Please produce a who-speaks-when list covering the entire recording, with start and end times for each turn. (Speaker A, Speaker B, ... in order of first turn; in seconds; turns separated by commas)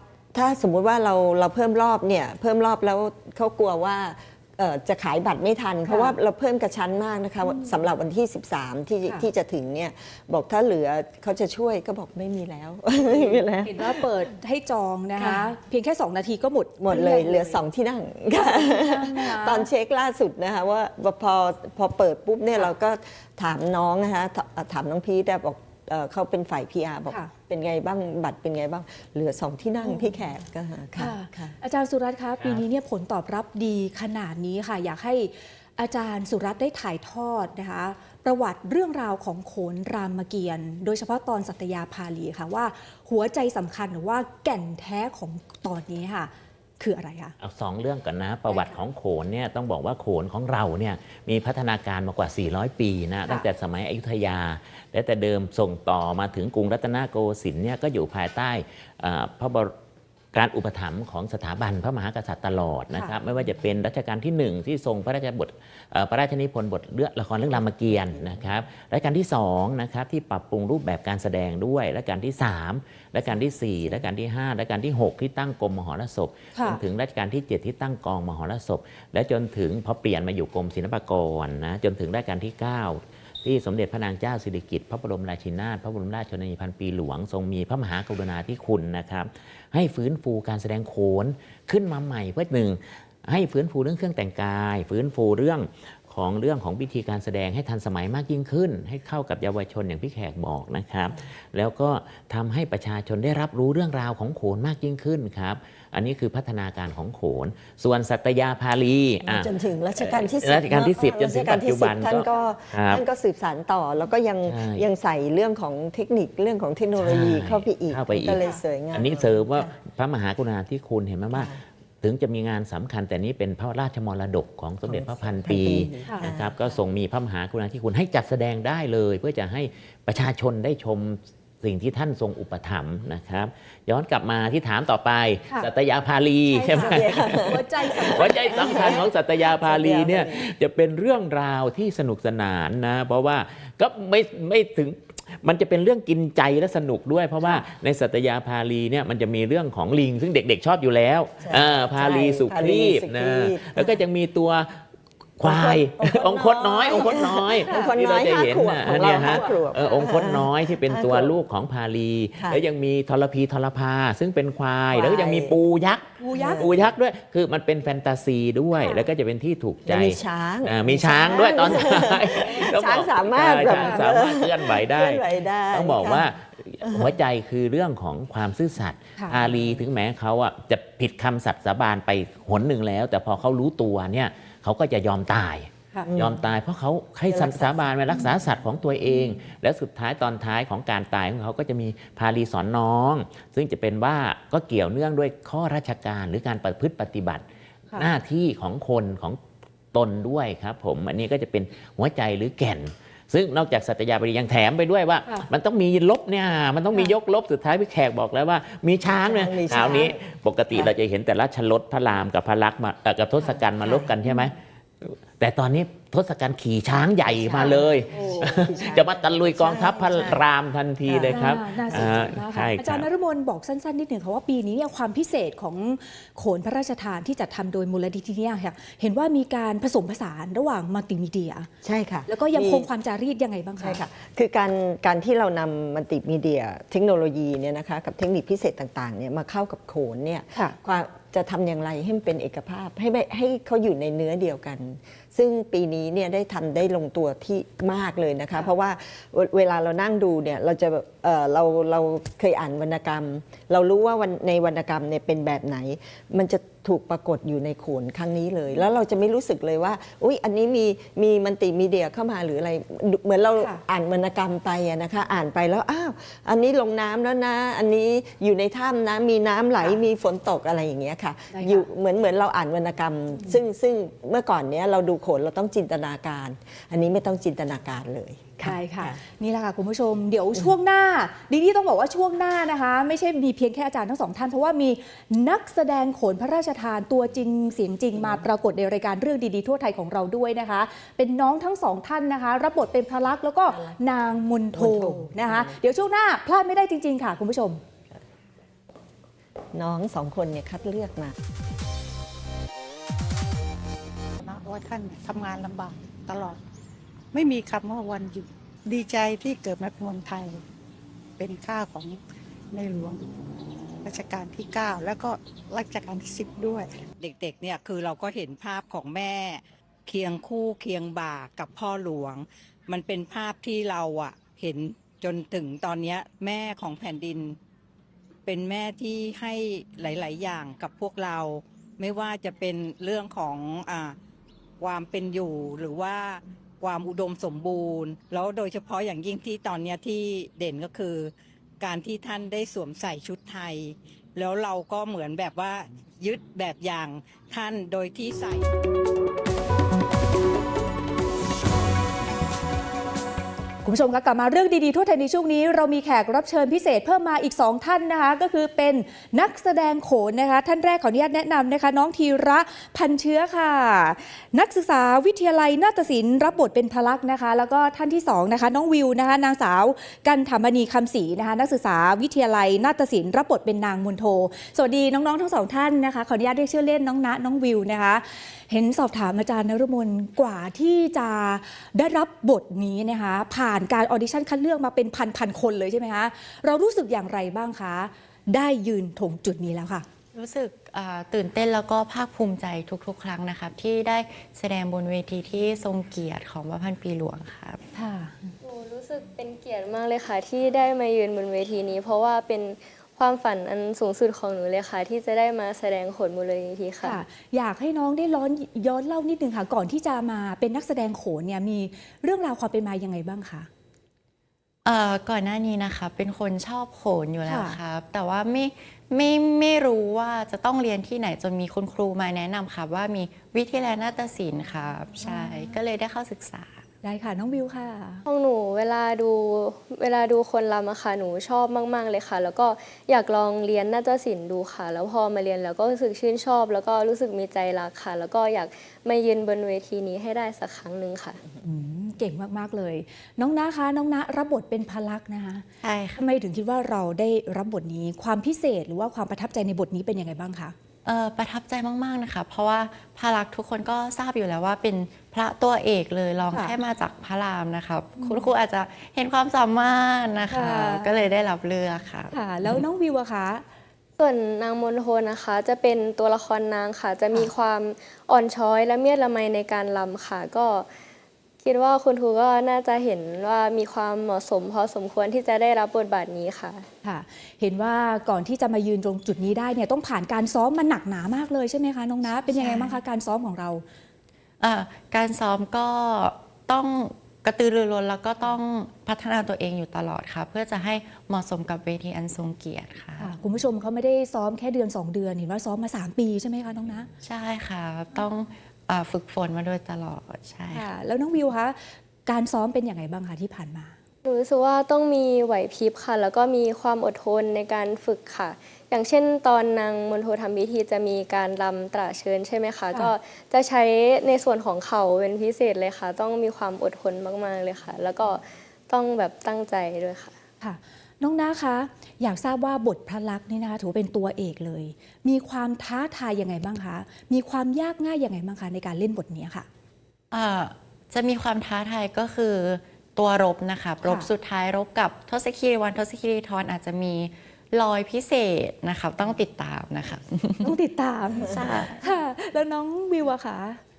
Speaker A: 0.3-14.0, Speaker B: 5.9-6.2, Speaker B: 7.4-7.8, Speaker B: 13.1-17.6, Speaker A: 16.8-31.6, Speaker B: 18.3-19.7, Speaker B: 30.9-47.3, Speaker C: 47.4-59.7, Speaker B: 48.5-48.8, Speaker C: 60.3-113.0, Speaker A: 67.5-68.5, Speaker A: 73.3-74.0, Speaker B: 76.5-76.8, Speaker A: 109.2-119.7, Speaker C: 114.5-114.8, Speaker C: 117.0-118.4, Speaker C: 118.9-154.8, Speaker A: 121.3-121.6, Speaker A: 124.8-126.8, Speaker B: 136.6-138.9, Speaker A: 136.6-140.5, Speaker A: 151.4-154.0, Speaker C: 155.4-197.4, Speaker A: 155.4-161.3, Speaker B: 157.6-157.9, Speaker B: 159.1-159.5, Speaker A: 164.9-165.6, Speaker B: 166.2-166.7, Speaker A: 166.3-166.8, Speaker A: 169.8-176.3, Speaker B: 173.7-174.0, Speaker A: 176.8-177.1, Speaker A: 179.4-179.8, Speaker A: 186.0-186.4, Speaker A: 187.3-187.9, Speaker C: 197.9-199.4, Speaker C: 199.9-223.1, Speaker A: 209.2-210.9, Speaker A: 213.5-214.1, Speaker B: 213.9-214.4, Speaker A: 217.4-220.4, Speaker B: 217.5-219.0, Speaker A: 221.0-222.3, Speaker B: 221.3-231.7, Speaker A: 231.8-232.9, Speaker B: 232.3-234.0, Speaker A: 233.8-279.2, Speaker B: 271.5-271.9, Speaker B: 278.6-297.8, Speaker A: 288.1-288.4, Speaker A: 293.7-294.0, Speaker A: 294.7-295.8, Speaker A: 299.7-301.4, Speaker D: 304.4-306.6, Speaker D: 307.3-310.6, Speaker D: 311.4-312.2, Speaker D: 312.7-313.2, Speaker D: 314.0-316.9, Speaker E: 317.2-327.6, Speaker E: 328.4-334.1, Speaker E: 334.8-348.7, Speaker B: 353.8-390.1, Speaker F: 390.3-397.8, Speaker B: 397.9-398.6, Speaker G: 398.6-407.2, Speaker B: 407.0-413.7, Speaker F: 414.8-426.8, Speaker B: 417.4-417.8, Speaker B: 425.2-425.7, Speaker B: 427.0-428.2, Speaker G: 428.2-441.4, Speaker B: 441.6-445.6, Speaker F: 445.8-446.2, Speaker B: 446.2-450.7, Speaker F: 451.0-462.8, Speaker B: 456.5-456.8, Speaker B: 458.2-458.4, Speaker B: 460.5-461.1, Speaker B: 462.3-463.6, Speaker G: 464.2-470.9, Speaker G: 471.6-476.9, Speaker B: 477.0-483.8, Speaker F: 482.3-483.0, Speaker F: 484.6-493.4, Speaker B: 493.2-497.1, Speaker F: 497.2-500.9, Speaker B: 500.7-503.9, Speaker G: 504.2-520.4, Speaker B: 520.6-529.7, Speaker F: 530.3-540.8, Speaker B: 534.0-534.3, Speaker B: 540.6-543.8, Speaker F: 541.4-542.0